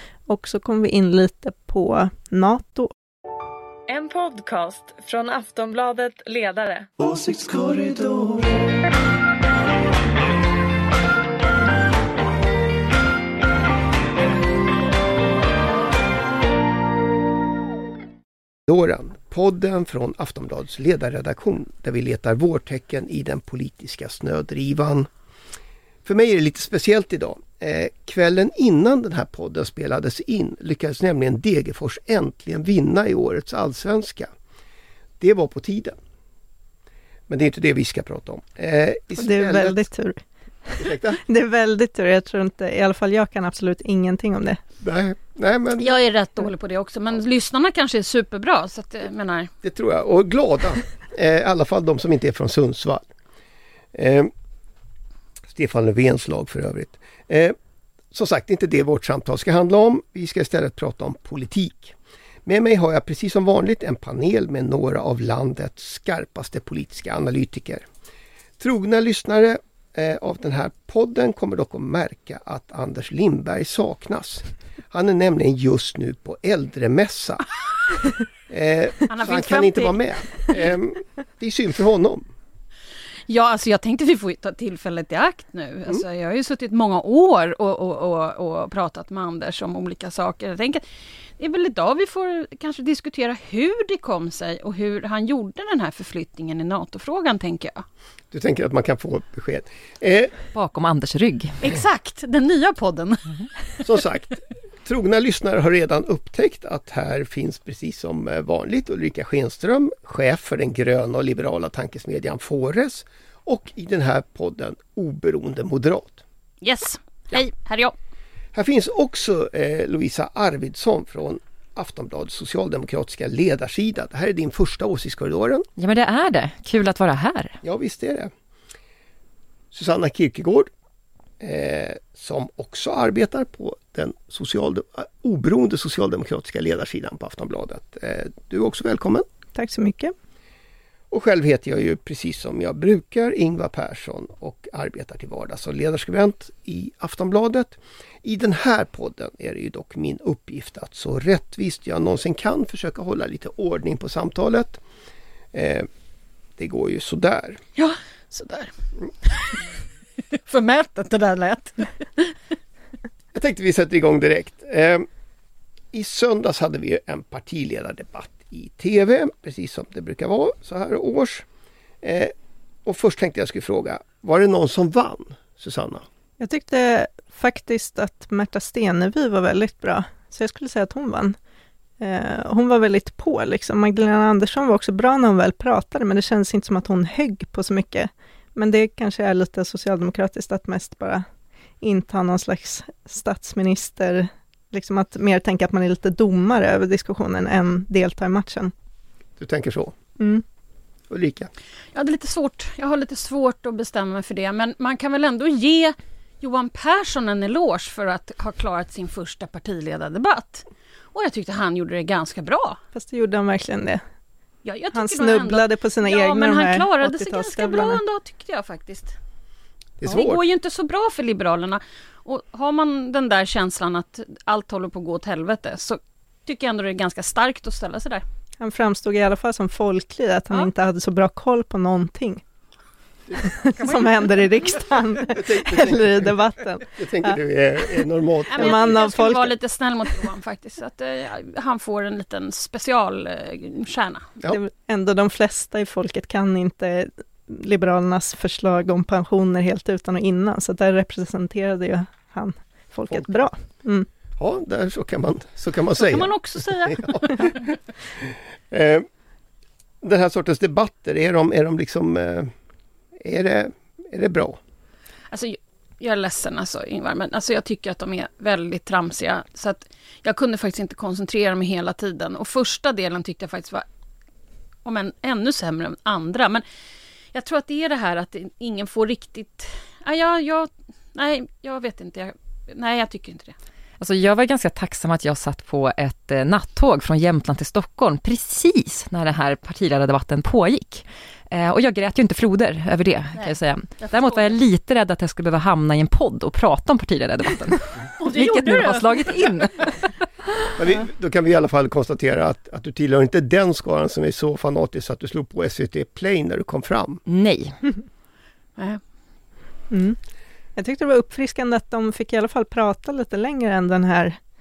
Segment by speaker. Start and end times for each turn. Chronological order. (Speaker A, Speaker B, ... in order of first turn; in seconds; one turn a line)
Speaker A: 0.3-2.9
Speaker B: 3.9-8.6
Speaker C: 18.7-25.1
Speaker C: 26.1-34.3
Speaker C: 35.2-36.0
Speaker C: 37.3-39.9
Speaker A: 39.2-40.2
Speaker C: 40.8-41.2
Speaker A: 40.8-44.6
Speaker C: 44.8-45.9
Speaker D: 45.8-49.5
Speaker C: 49.6-53.1
Speaker C: 53.9-54.3
Speaker C: 55.5-57.6
Speaker C: 58.1-67.9
Speaker C: 68.6-77.4
Speaker C: 78.5-82.3
Speaker D: 79.1-80.7
Speaker D: 83.3-90.8
Speaker D: 91.4-97.9
Speaker C: 98.3-100.3
Speaker E: 100.5-101.6
Speaker D: 101.6-103.8
Speaker C: 103.8-116.2
Speaker D: 116.6-118.0
Speaker C: 118.5-125.7
Speaker E: 125.8-127.6
Speaker C: 127.6-128.3
Speaker C: 129.7-130.7
Speaker C: 131.4-139.3
Speaker A: 139.6-140.1
Speaker C: 141.1-154.8
Speaker C: 155.5-155.9
Speaker C: 156.6-157.6
Speaker D: 157.8-158.7
Speaker D: 159.2-159.7
Speaker D: 160.3-162.4
Speaker C: 163.3-165.1
Speaker C: 165.9-171.5
Speaker C: 172.0-172.3
Speaker C: 172.8-176.1
Speaker A: 176.4-181.4
Speaker A: 182.0-191.3
Speaker A: 191.8-198.7
Speaker C: 199.4-199.9
Speaker A: 200.2-200.4
Speaker C: 201.1-201.5
Speaker D: 201.9-212.8
Speaker A: 212.9-214.0
Speaker D: 214.7-219.2
Speaker A: 214.9-218.0
Speaker C: 220.0-220.4
Speaker D: 220.1-228.2
Speaker A: 228.6-232.4
Speaker A: 233.4-237.4
Speaker D: 233.8-234.7
Speaker C: 235.3-239.0
Speaker D: 238.5-244.3
Speaker A: 238.6-239.5
Speaker A: 244.5-254.1
Speaker C: 253.1-253.5
Speaker C: 254.4-257.6
Speaker D: 256.0-257.8
Speaker C: 258.2-259.1
Speaker C: 260.0-262.5
Speaker C: 263.2-264.6
Speaker D: 265.3-273.9
Speaker D: 274.9-276.6
Speaker D: 277.3-283.6
Speaker E: 284.0-300.1
Speaker D: 293.4-294.6
Speaker D: 298.2-299.6
Speaker C: 300.8-307.2
Speaker E: 307.3-307.8
Speaker A: 309.9-310.2
Speaker A: 310.8-314.4